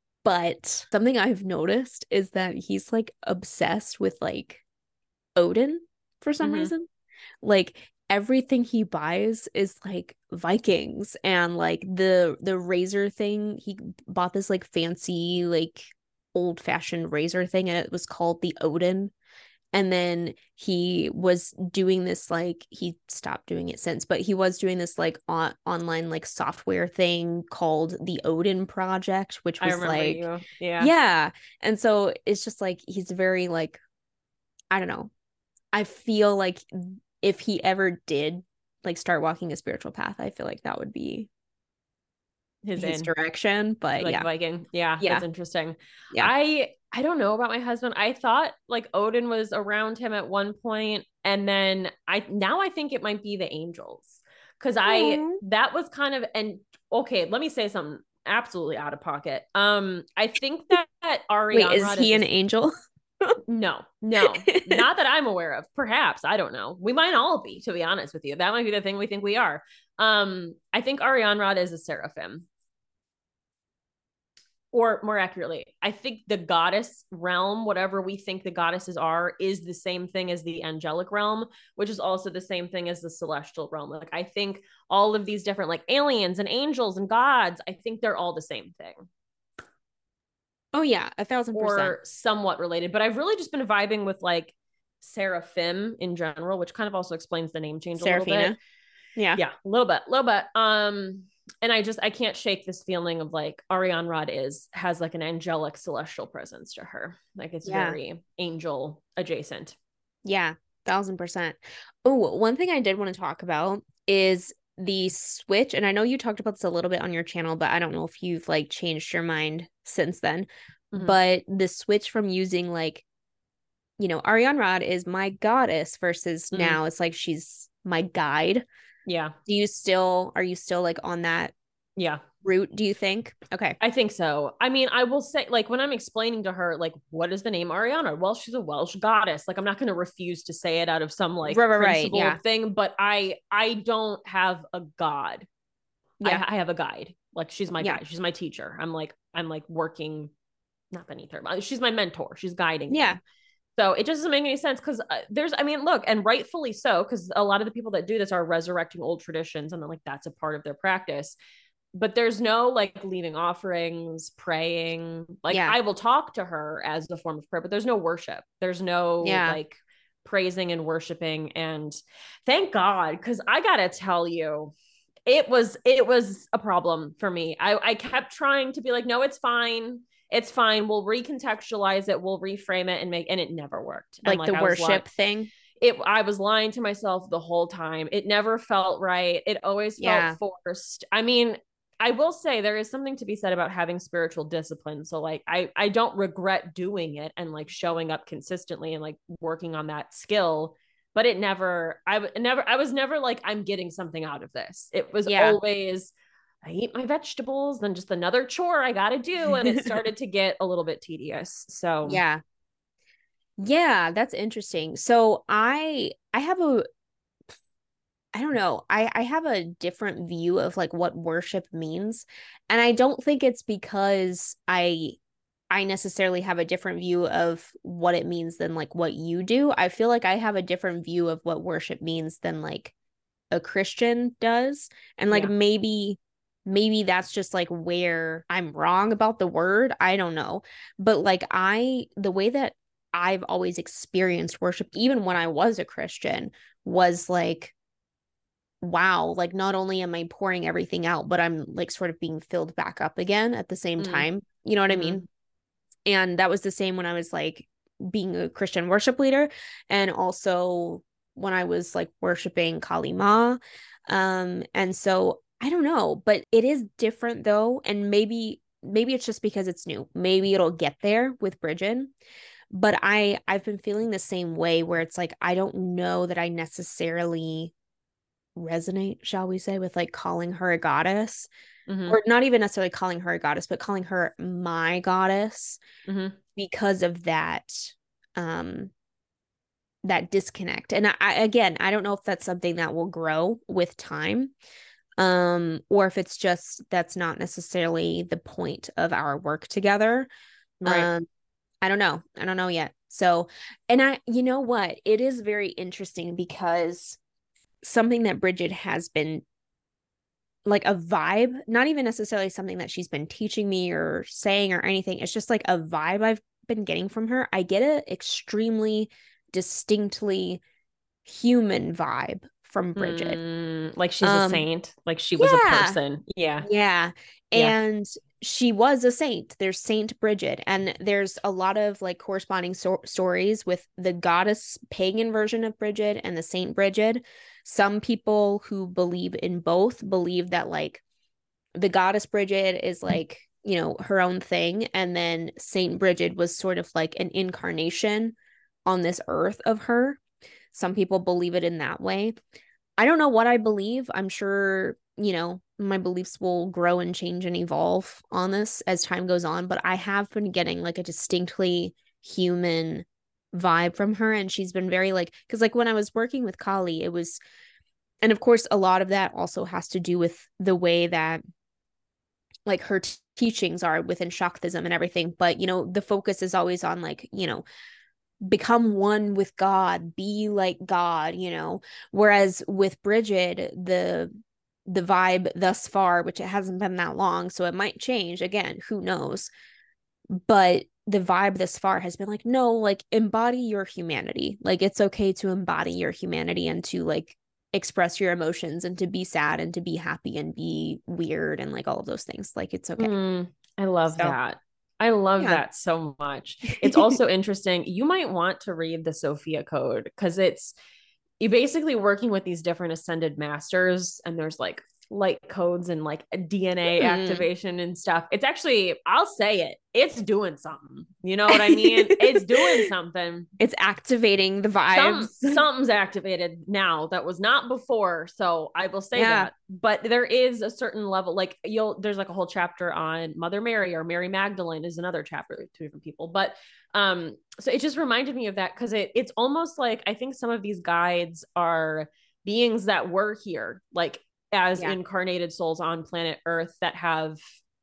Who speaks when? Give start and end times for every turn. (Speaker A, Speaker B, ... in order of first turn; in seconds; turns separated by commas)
Speaker A: 0.2-4.6, Speaker A: 5.4-6.9, Speaker B: 6.4-6.7, Speaker A: 7.4-19.1, Speaker A: 19.7-30.2, Speaker B: 29.6-30.9, Speaker A: 30.8-33.8, Speaker A: 34.7-35.1, Speaker A: 35.7-41.3, Speaker B: 42.6-43.1, Speaker A: 42.8-44.2, Speaker B: 44.0-62.3, Speaker A: 54.9-55.4, Speaker A: 61.5-63.4, Speaker B: 63.5-72.5, Speaker A: 64.1-64.9, Speaker B: 74.7-89.1, Speaker A: 90.7-92.0, Speaker B: 91.5-98.5, Speaker A: 98.0-98.6, Speaker B: 99.4-109.8, Speaker A: 107.7-108.0, Speaker A: 110.2-123.0, Speaker B: 120.9-121.2, Speaker A: 124.0-128.7, Speaker B: 126.5-126.8, Speaker B: 129.1-129.3, Speaker A: 129.5-131.5, Speaker B: 132.0-132.2, Speaker A: 132.4-133.8, Speaker B: 133.8-145.5, Speaker A: 141.5-142.4, Speaker B: 146.2-150.3, Speaker B: 150.9-153.2, Speaker A: 152.9-153.2, Speaker B: 153.8-161.4, Speaker B: 161.9-174.7, Speaker A: 165.5-165.8, Speaker A: 169.2-169.6, Speaker B: 175.3-185.1, Speaker A: 184.2-185.5, Speaker B: 185.8-206.1, Speaker A: 190.0-190.4, Speaker A: 205.3-205.6, Speaker B: 206.6-212.2, Speaker A: 209.7-209.9, Speaker A: 212.1-212.4, Speaker A: 213.6-216.8, Speaker A: 218.3-225.2, Speaker A: 225.7-232.9, Speaker A: 233.5-247.7, Speaker B: 235.3-235.5, Speaker A: 248.8-255.2, Speaker B: 254.0-254.3, Speaker B: 254.9-255.2, Speaker A: 256.1-272.1, Speaker A: 272.7-277.7, Speaker A: 278.6-281.5, Speaker B: 281.9-282.2, Speaker A: 282.1-285.8, Speaker B: 286.1-286.4, Speaker A: 286.6-288.9, Speaker A: 290.0-294.5, Speaker A: 295.2-300.3, Speaker B: 300.8-301.1, Speaker A: 300.8-301.3, Speaker A: 301.8-307.2, Speaker A: 307.8-309.4, Speaker A: 310.7-320.6, Speaker A: 321.2-323.4, Speaker B: 323.0-326.7, Speaker A: 324.2-324.7, Speaker A: 325.4-326.0, Speaker A: 326.6-341.0, Speaker A: 341.8-350.2, Speaker A: 350.7-352.4, Speaker A: 353.0-367.4, Speaker A: 368.2-371.4, Speaker A: 372.7-377.6, Speaker A: 378.4-384.3, Speaker A: 384.9-389.5, Speaker A: 390.4-403.1, Speaker B: 403.0-410.7, Speaker A: 406.8-407.2, Speaker B: 411.4-423.5, Speaker A: 417.0-417.5, Speaker A: 421.5-422.9, Speaker A: 423.6-425.6, Speaker B: 424.9-447.4, Speaker A: 429.1-429.5